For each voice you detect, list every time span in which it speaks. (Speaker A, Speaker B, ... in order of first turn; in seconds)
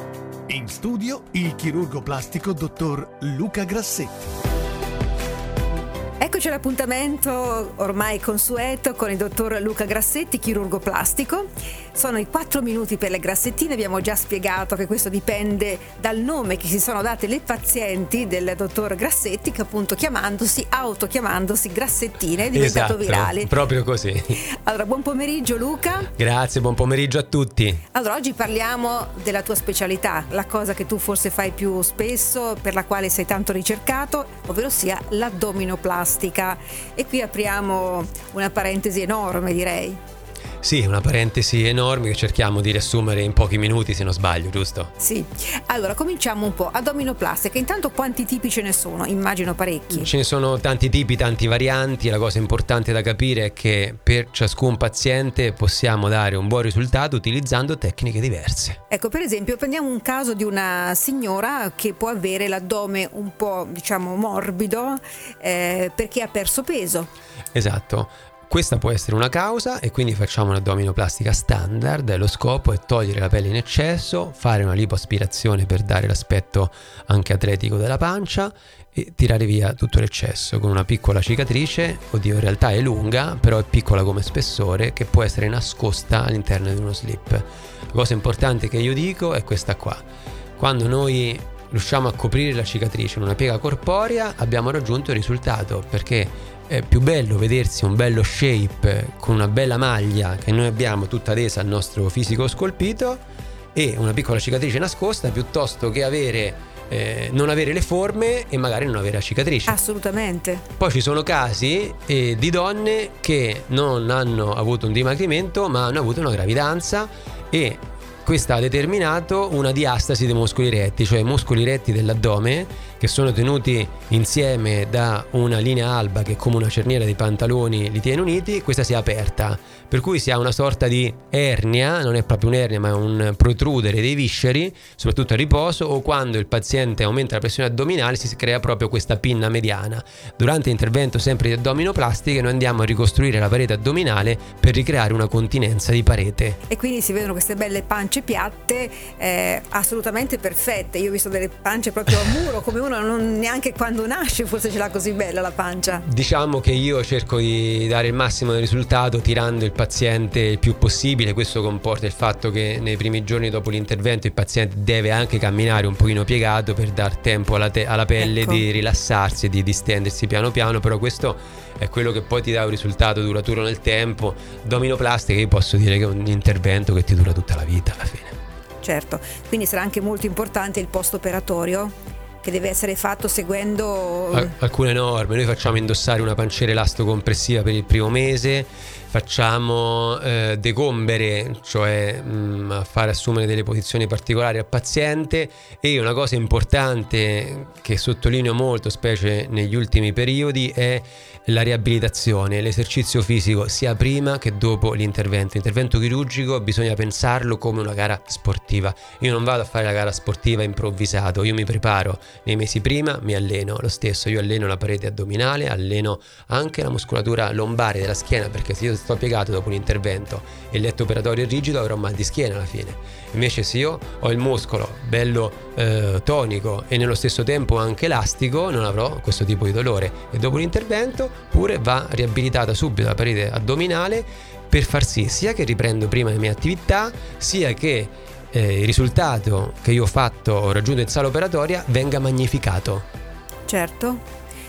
Speaker A: 0.5-4.3
Speaker B: 6.2-23.6, 24.4-26.1, 27.9-40.0, 45.0-50.1, 58.9-67.1, 109.7-110.6, 146.7-156.0, 168.2-168.6, 178.8-184.5, 243.7-244.2
Speaker C: 22.5-24.4, 26.1-27.8, 40.6-44.9, 49.9-58.8, 67.5-90.0, 90.6-103.2, 103.7-109.8, 110.8-146.6, 156.1-178.3, 184.3-243.0